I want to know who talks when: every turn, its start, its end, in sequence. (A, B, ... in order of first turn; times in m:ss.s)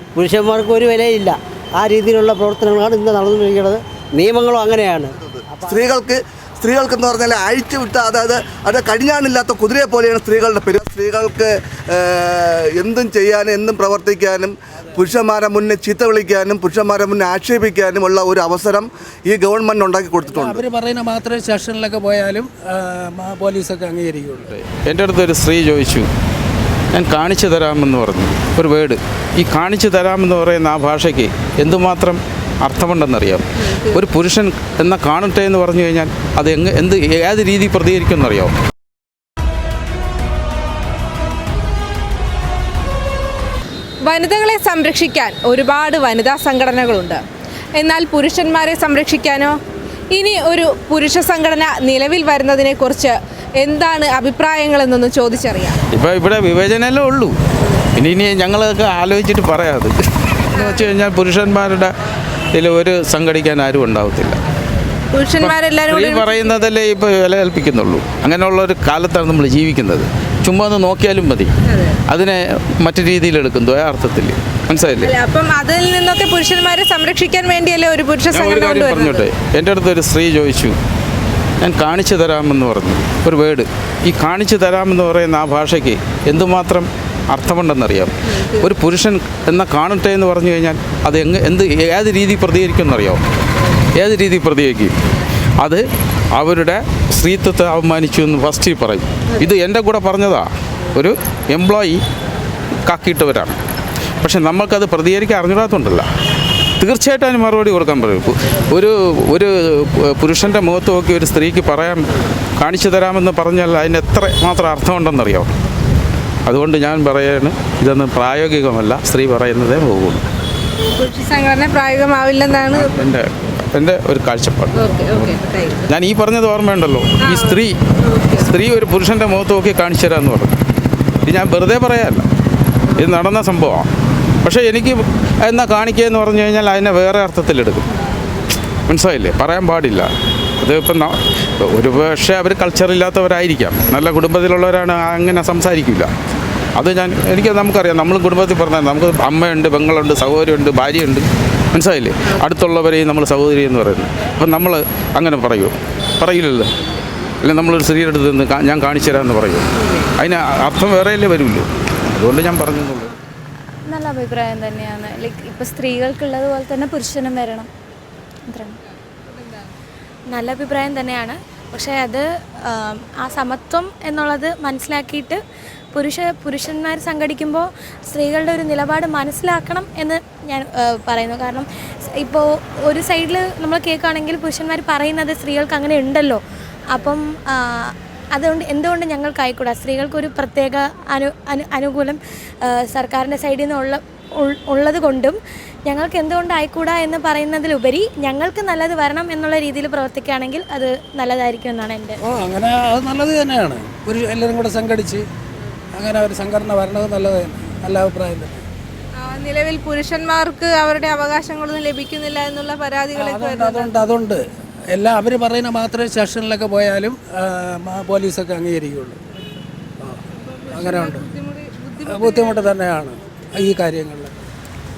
0:00.2-0:05.8 A
0:05.1-0:20.6 B
0:20.3-0:24.5 C
0:24.5-0:26.1 D
0:26.9-0:38.5 D
0:44.1-0:47.2 E
0:47.8-0:49.6 E
0:50.1-0:55.8 E
0:55.9-0:57.4 D
0:58.0-1:01.9 D
1:02.5-1:04.4 D
1:05.1-1:06.6 E
1:05.4-1:11.5 D
1:11.7-1:12.0 E
1:12.1-1:15.1 D
1:15.0-1:19.3 E
1:18.3-1:20.8 D
1:21.6-1:33.2 D
1:34.0-1:35.1 D
1:36.4-1:42.0 D
1:42.9-1:43.6 D
1:44.2-1:46.1 D
1:46.8-1:52.1 D
1:52.6-1:55.5 D
1:56.5-2:00.3 D
2:00.9-2:02.9 E
2:02.7-2:07.8 D
2:04.8-2:05.8 E
2:07.2-2:08.5 E
2:08.4-2:10.6 D
2:11.3-2:12.3 D
2:13.0-2:13.9 D
2:14.4-2:17.9 D
2:18.9-2:21.2 D
2:21.7-2:26.1 D
2:26.8-2:36.7 D
2:37.4-2:43.1 D
2:43.9-2:47.7 F
2:48.5-2:48.8 F
2:49.3-2:49.7 E
2:50.3-2:55.4 F
2:55.9-3:22.2 F
3:22.3-3:25.2 C
3:25.9-3:28.6 C
3:29.2-3:33.9 E
3:33.2-3:39.2 C
3:40.5-3:42.7 E
3:40.7-3:41.3 C
3:42.1-3:44.3 C